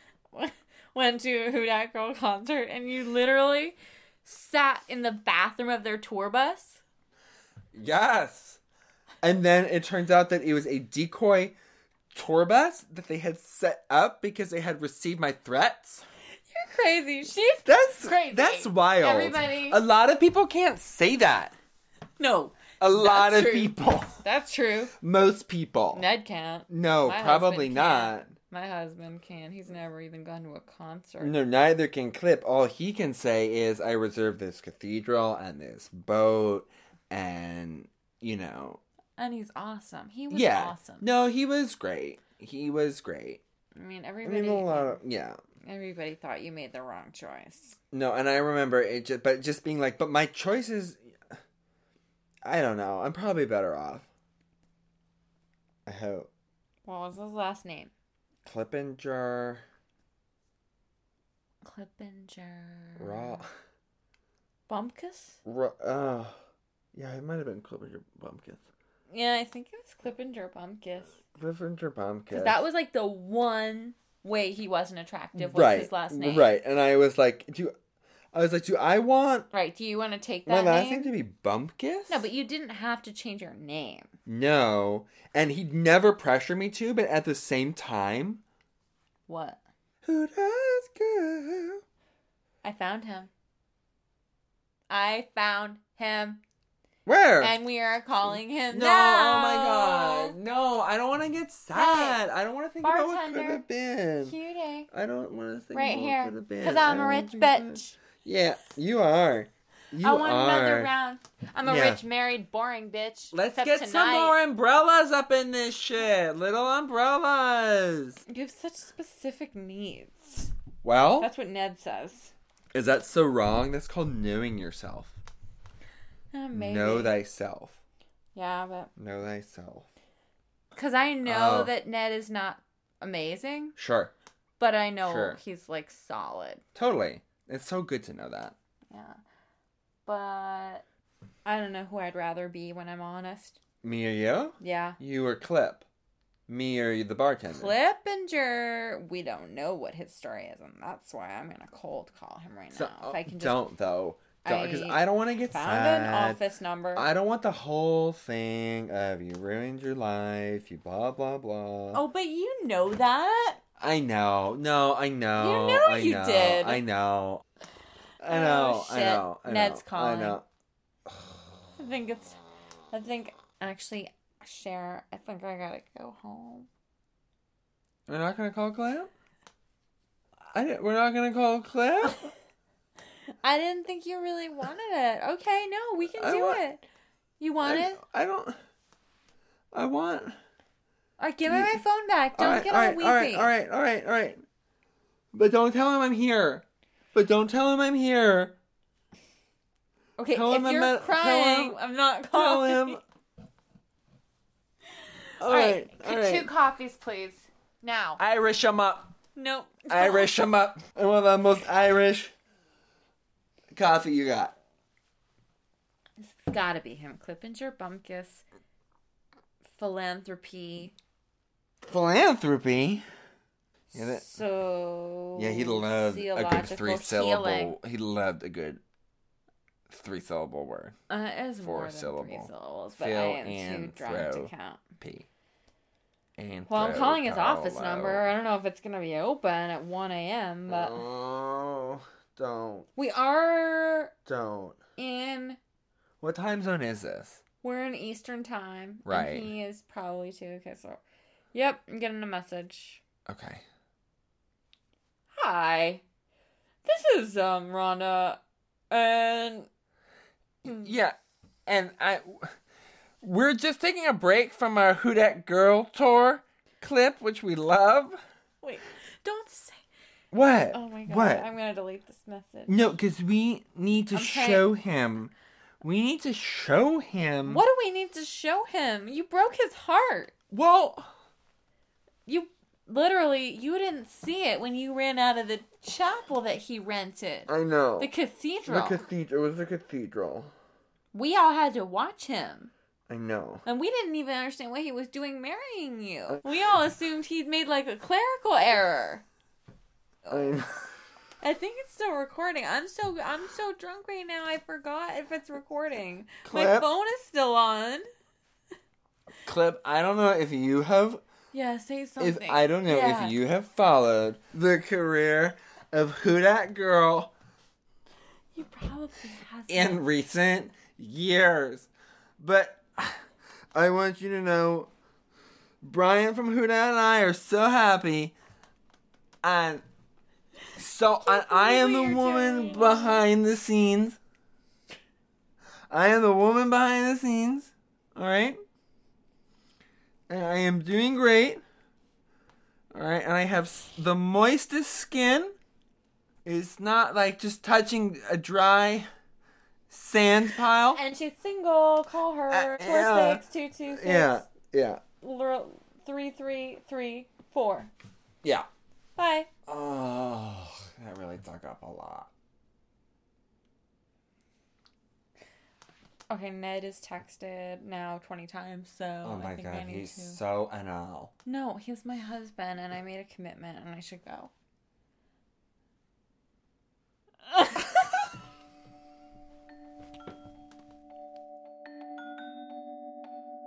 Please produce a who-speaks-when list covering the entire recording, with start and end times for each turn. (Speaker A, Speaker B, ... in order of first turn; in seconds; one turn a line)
Speaker A: 0.3-6.8
Speaker B: 7.8-8.6
Speaker B: 9.2-11.5
Speaker B: 12.1-16.0
Speaker A: 16.5-19.8
Speaker B: 17.6-21.5
Speaker A: 22.2-24.9
Speaker B: 22.8-24.2
Speaker B: 25.0-26.0
Speaker A: 25.9-31.4
Speaker B: 26.7-28.3
Speaker B: 31.2-38.8
Speaker A: 39.2-41.1
Speaker B: 40.3-43.4
Speaker A: 43.8-45.0
Speaker B: 44.2-45.4
Speaker A: 45.6-47.8
Speaker B: 47.9-51.1
Speaker B: 52.4-54.1
Speaker B: 55.9-56.3
Speaker A: 56.8-57.9
Speaker B: 58.4-59.6
Speaker A: 61.6-63.4
Speaker B: 63.0-63.5
Speaker A: 64.7-65.4
Speaker B: 65.4-66.4
Speaker B: 66.9-68.6
Speaker A: 69.1-71.2
Speaker B: 71.3-72.6
Speaker A: 72.3-76.5
Speaker B: 75.3-77.7
Speaker B: 78.3-79.5
Speaker A: 79.5-81.1
Speaker B: 80.5-82.2
Speaker A: 82.1-84.1
Speaker B: 84.2-88.4
Speaker A: 89.3-89.6
Speaker B: 90.0-91.8
Speaker A: 92.6-93.3
Speaker A: 94.9-96.4
Speaker B: 97.1-97.6
Speaker A: 97.4-100.4
Speaker B: 98.2-104.3
Speaker A: 101.7-102.2
Speaker A: 102.8-103.6
Speaker A: 104.2-104.9
Speaker B: 104.9-110.9
Speaker A: 105.7-108.0
Speaker A: 110.0-114.4
Speaker B: 111.6-112.0
Speaker B: 113.3-118.2
Speaker A: 118.3-120.5
Speaker B: 120.8-121.3
Speaker A: 121.2-122.3
Speaker B: 122.7-125.2
Speaker A: 126.3-127.2
Speaker B: 126.5-127.8
Speaker A: 128.3-128.9
Speaker B: 129.0-129.9
Speaker A: 130.7-133.8
Speaker B: 131.2-131.8
Speaker B: 133.8-134.1
Speaker A: 134.6-136.6
Speaker B: 135.0-135.4
Speaker B: 136.7-138.6
Speaker A: 138.9-139.2
Speaker A: 140.1-140.8
Speaker A: 141.4-143.6
Speaker B: 143.8-145.8
Speaker A: 144.6-145.0
Speaker B: 146.5-147.8
Speaker A: 147.5-153.6
Speaker B: 152.7-156.4
Speaker A: 154.4-157.1
Speaker B: 156.9-162.0
Speaker A: 161.9-163.6
Speaker B: 163.8-167.4
Speaker A: 165.4-166.8
Speaker B: 168.2-170.4
Speaker A: 168.3-170.4
Speaker A: 171.8-172.4
Speaker A: 172.9-176.7
Speaker B: 178.1-179.1
Speaker B: 180.5-182.3
Speaker A: 183.4-186.8
Speaker B: 186.0-186.6
Speaker A: 187.4-188.0
Speaker B: 187.6-188.6
Speaker B: 189.7-190.4
Speaker A: 191.2-193.5
Speaker B: 191.4-191.8
Speaker B: 192.3-194.4
Speaker B: 195.3-198.6
Speaker A: 200.2-203.0
Speaker B: 200.3-201.8
Speaker B: 202.3-203.0
Speaker B: 205.4-206.5
Speaker A: 205.4-208.2
Speaker B: 208.2-209.1
Speaker A: 209.3-210.3
Speaker B: 209.9-212.3
Speaker B: 213.7-214.6
Speaker A: 216.2-218.4
Speaker A: 219.7-220.9
Speaker B: 221.8-223.1
Speaker A: 223.9-227.8
Speaker B: 223.9-224.2
Speaker B: 225.3-228.8
Speaker B: 229.9-230.9
Speaker A: 231.1-234.8
Speaker B: 231.6-235.3
Speaker B: 236.4-238.3
Speaker A: 236.7-241.0
Speaker B: 240.7-242.9
Speaker A: 242.9-244.1
Speaker B: 244.2-244.8
Speaker A: 245.0-245.6
Speaker B: 246.2-247.4
Speaker A: 247.6-251.0
Speaker B: 249.1-249.5
Speaker A: 251.5-253.0
Speaker B: 253.3-253.6
Speaker A: 255.3-256.0
Speaker A: 256.8-258.4
Speaker A: 258.9-259.7
Speaker B: 260.6-262.6
Speaker B: 263.2-268.2
Speaker A: 268.6-269.8
Speaker B: 270.3-271.5
Speaker A: 270.7-272.8
Speaker B: 272.7-277.6
Speaker A: 274.1-274.7
Speaker A: 277.4-280.3
Speaker B: 280.5-281.1
Speaker A: 282.2-289.0
Speaker B: 287.5-288.1
Speaker B: 288.7-290.5
Speaker A: 291.1-292.7
Speaker B: 293.1-293.6
Speaker A: 293.6-299.2
Speaker A: 300.2-300.6
Speaker B: 300.3-300.9
Speaker A: 301.4-308.1
Speaker B: 306.4-306.9
Speaker B: 309.4-311.2
Speaker A: 311.5-313.3
Speaker B: 312.2-317.3
Speaker A: 318.6-320.0
Speaker B: 319.7-323.2
Speaker B: 323.7-324.9
Speaker B: 325.8-328.3
Speaker B: 329.4-329.8
Speaker B: 330.8-334.2
Speaker A: 331.2-333.2
Speaker B: 335.9-338.6
Speaker B: 340.3-341.6
Speaker B: 342.9-345.5
Speaker B: 346.4-349.1
Speaker B: 349.9-351.0
Speaker A: 350.9-354.4
Speaker B: 352.5-355.0
Speaker A: 355.2-357.9
Speaker A: 359.2-359.5
Speaker B: 359.7-362.3
Speaker A: 366.3-370.4
Speaker B: 369.2-371.3
Speaker A: 371.4-374.5
Speaker A: 377.5-377.9